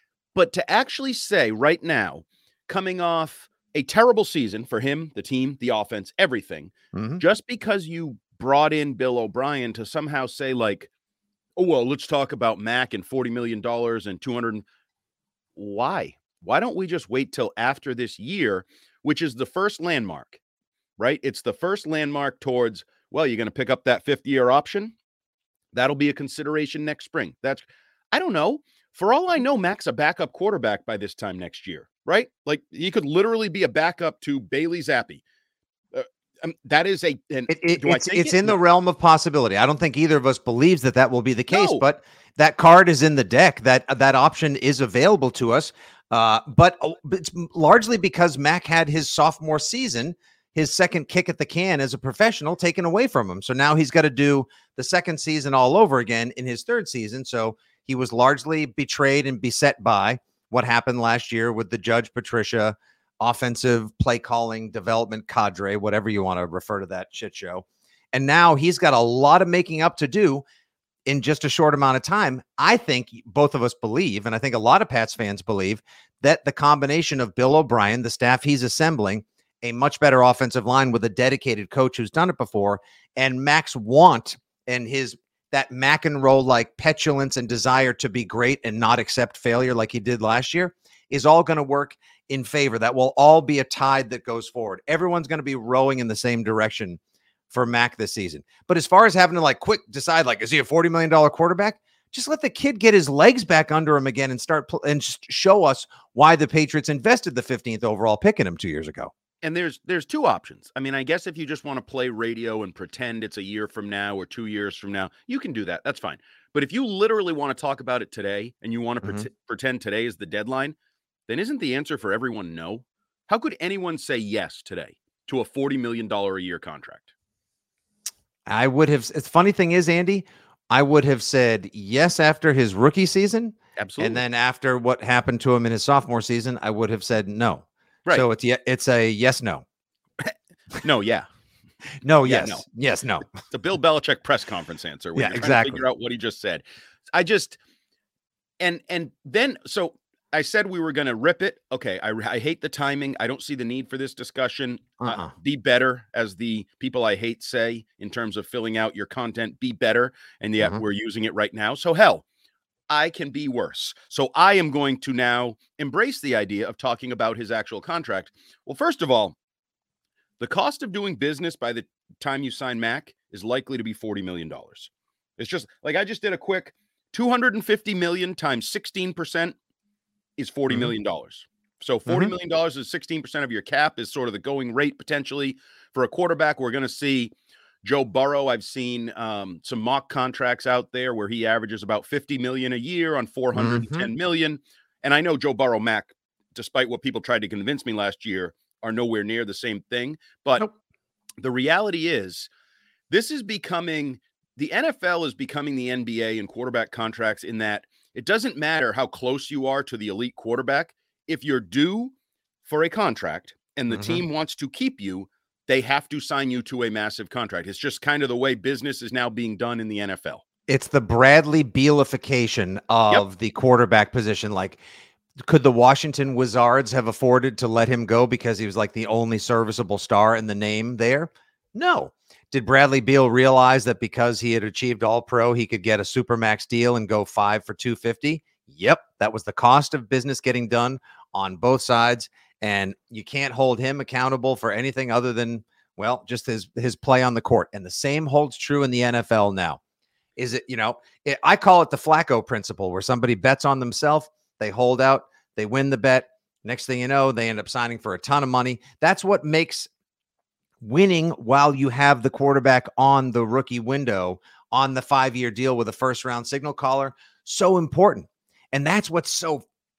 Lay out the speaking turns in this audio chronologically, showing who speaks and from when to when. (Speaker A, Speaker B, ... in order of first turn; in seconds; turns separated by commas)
Speaker A: 0.3-10.9, Speaker B: 6.9-7.2, Speaker A: 11.6-14.7, Speaker A: 15.6-20.4, Speaker A: 21.0-24.9, Speaker A: 25.7-35.2, Speaker A: 35.9-38.6, Speaker B: 37.5-70.4, Speaker A: 41.5-41.9, Speaker B: 71.1-97.0, Speaker B: 97.5-109.1, Speaker A: 109.4-120.8, Speaker A: 121.3-127.1, Speaker B: 128.5-139.6, Speaker A: 133.8-134.2, Speaker A: 140.2-141.3, Speaker B: 142.0-143.2, Speaker A: 142.2-142.6, Speaker A: 143.3-147.6, Speaker B: 145.2-145.8, Speaker A: 148.6-162.2, Speaker B: 155.0-155.3, Speaker A: 162.9-169.3, Speaker A: 170.4-179.6, Speaker A: 180.4-200.7, Speaker B: 182.1-182.3, Speaker B: 193.6-194.1, Speaker A: 201.4-202.5, Speaker A: 203.1-212.1, Speaker A: 212.7-220.4, Speaker B: 213.9-214.2, Speaker B: 220.7-224.8, Speaker B: 225.4-249.8, Speaker B: 250.4-259.9, Speaker B: 260.8-269.6